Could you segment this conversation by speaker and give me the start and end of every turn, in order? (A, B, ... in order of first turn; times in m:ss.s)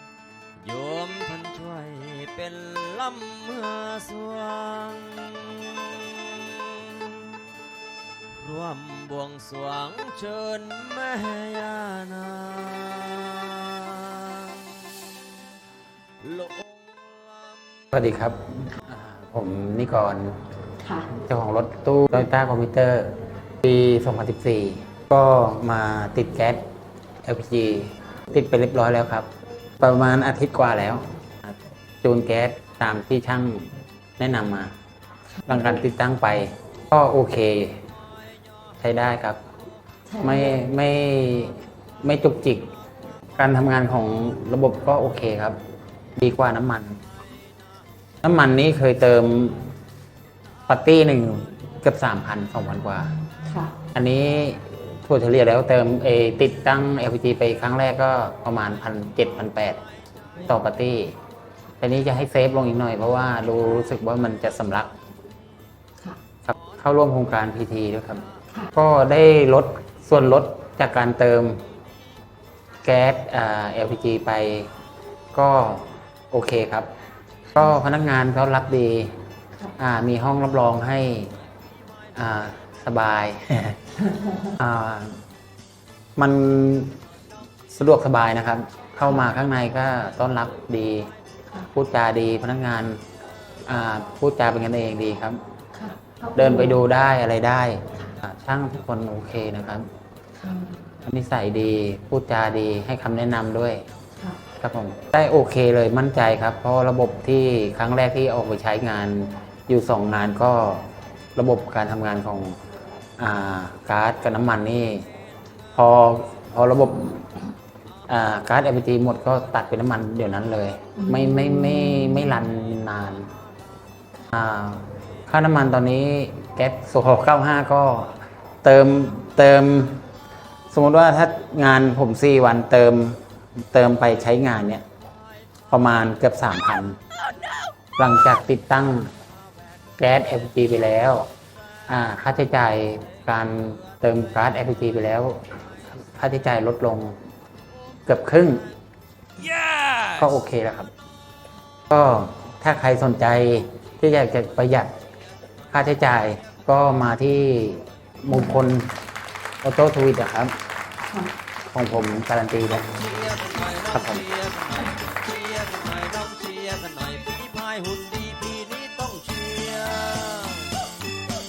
0:00.6-0:07.4 A
0:08.4-0:14.7 A
0:16.2-0:17.9 A
0:17.9-0:20.4 B
0:21.1-0:26.6 B
0:27.2-0:34.7 B
0:35.4-0:37.8 B
0:38.8-0:39.4 B
0:40.2-0:42.6 B
0:43.4-0:45.6 B
0:46.2-0:47.0 B
0:48.2-0:49.7 B
0:50.7-0:53.1 B
0:53.5-0:53.8 C
0:53.9-0:59.8 B
1:00.4-1:01.2 B
1:01.8-1:04.9 B
1:06.4-1:11.6 B
1:12.8-1:14.7 B
1:15.3-1:16.9 B
1:17.5-1:19.2 B
1:19.7-1:21.3 B
1:22.1-1:23.9 B
1:24.4-1:25.2 B
1:26.2-1:27.0 B
1:27.7-1:31.1 B
1:31.7-1:33.0 B
1:33.7-1:35.4 B
1:35.8-1:36.8 C
1:36.3-1:39.8 B
1:40.4-1:40.9 C
1:41.0-1:43.8 B
1:44.6-1:52.6 B
1:53.2-1:55.1 B
1:55.7-1:57.3 B
1:58.1-2:03.3 B
2:01.0-2:02.2 C
2:04.3-2:10.0 B
2:10.7-2:14.8 B
2:15.7-2:17.0 B
2:18.0-2:19.1 B
2:20.0-2:21.3 B
2:21.9-2:25.4 B
2:26.1-2:27.2 B
2:28.1-2:28.6 B
2:30.0-2:30.9 B
2:31.9-2:34.9 B
2:35.7-2:38.9 B
2:39.6-2:40.5 B
2:41.1-2:41.3 C
2:41.7-2:42.9 B
2:42.8-2:50.9 A
2:43.9-2:44.2 B